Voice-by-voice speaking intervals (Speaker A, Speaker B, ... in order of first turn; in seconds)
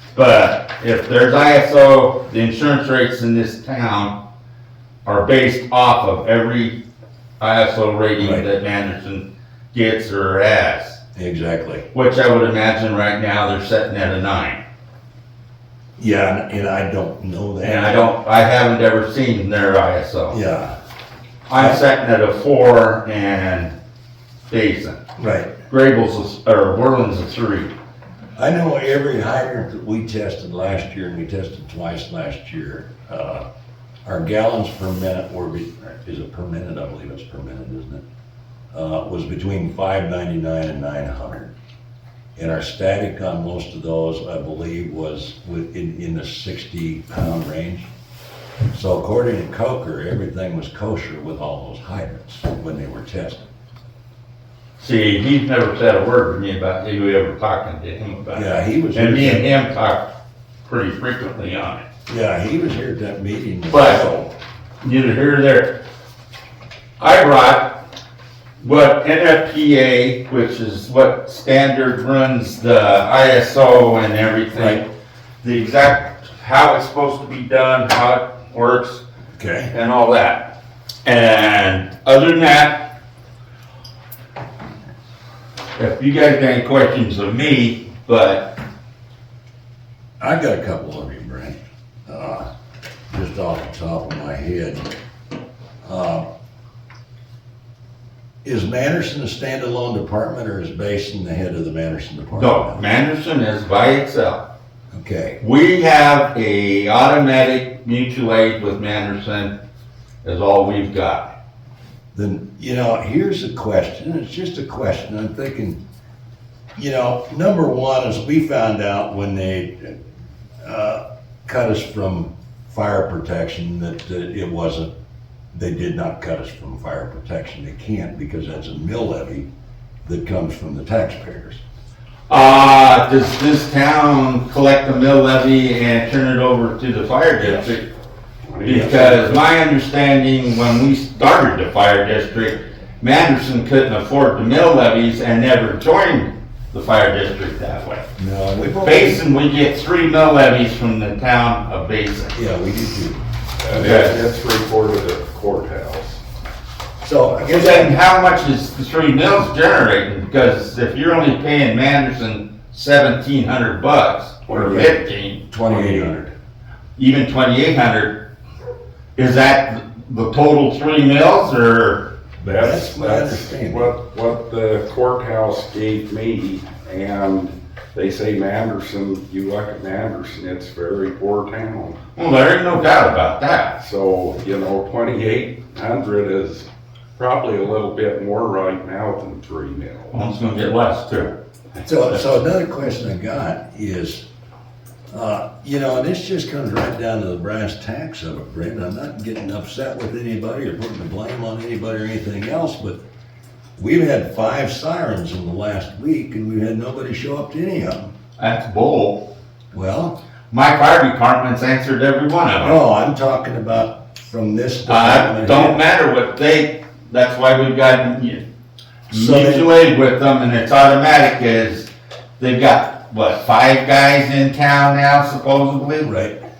Speaker A: 0.1-4.1, 5.0-6.8, 7.4-11.0, 11.9-14.6, 17.6-20.4, 21.5-23.7, 24.5-25.0, 25.7-27.7, 54.8-60.1, 60.6-61.8, 63.7-64.1, 64.8-65.8, 67.0-67.7, 68.6-74.8, 75.4-79.0, 79.7-80.5, 81.0-82.8, 85.8-88.5, 102.3-104.4, 105.4-109.5, 110.2-111.3, 132.3-137.9, 138.6-148.0, 148.8-152.4, 153.7-154.2, 157.4-166.0, 167.0-168.2, 169.2-172.1, 182.2-183.7, 190.1-191.3, 208.4-209.2, 210.5-212.8, 214.9-218.4, 219.1-226.1
Speaker B: 8.2-8.4, 11.1-11.9, 16.0-18.0, 20.3-20.7, 21.5-21.8, 25.2-25.5, 28.4-33.4, 34.0-38.0, 38.7-41.5, 42.4-47.9, 48.7-53.5, 58.3-59.5, 62.1-64.3, 79.3-79.7, 90.2-92.5, 93.1-94.9, 95.8-96.2, 98.4-102.8, 104.9-105.4, 112.1-115.8, 116.7-120.0, 120.6-124.9, 125.5-129.5, 130.0-131.6, 138.6-139.2, 148.2-149.2, 152.3-153.2, 157.0-157.9, 164.5-165.0, 165.5-166.3, 172.4-173.9, 191.8-194.2, 195.1-203.0, 203.8-208.1, 209.7-210.2, 212.6-215.8, 219.1-219.7, 226.0-226.4
Speaker C: 138.5-139.2, 153.6-156.2, 172.4-182.0, 183.8-190.1